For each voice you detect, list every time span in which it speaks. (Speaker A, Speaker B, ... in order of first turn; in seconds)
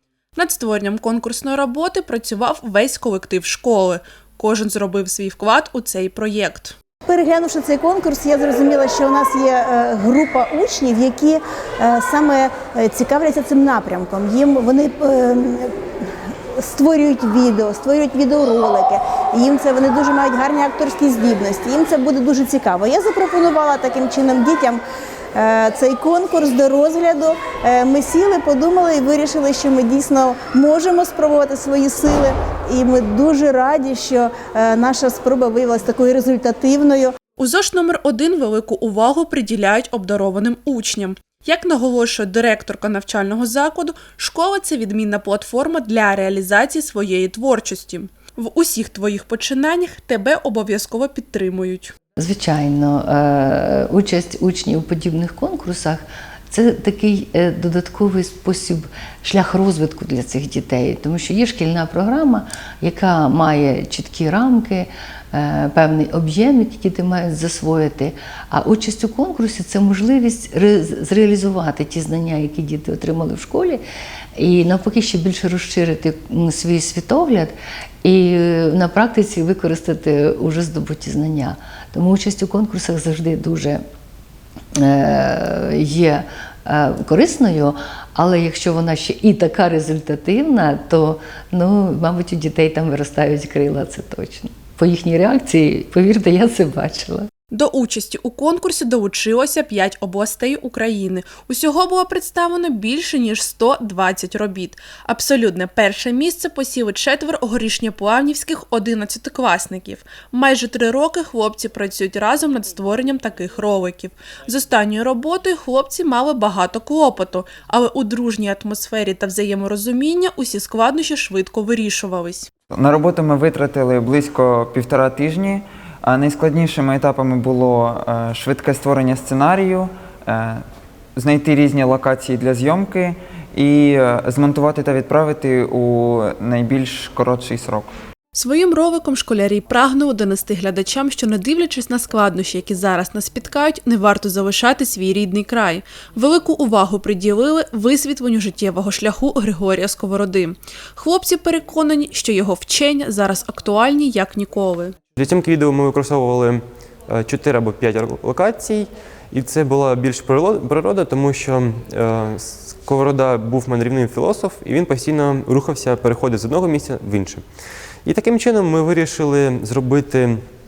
Speaker A: 0.3-6.7, 37.4-51.9, 97.5-122.5, 138.3-154.9
Speaker B: 7.0-24.8, 25.3-37.1
Speaker C: 52.2-73.8, 74.3-83.8, 84.8-97.3
Speaker D: 122.7-130.6, 131.2-137.9
Speaker E: 155.2-167.4, 168.0-170.4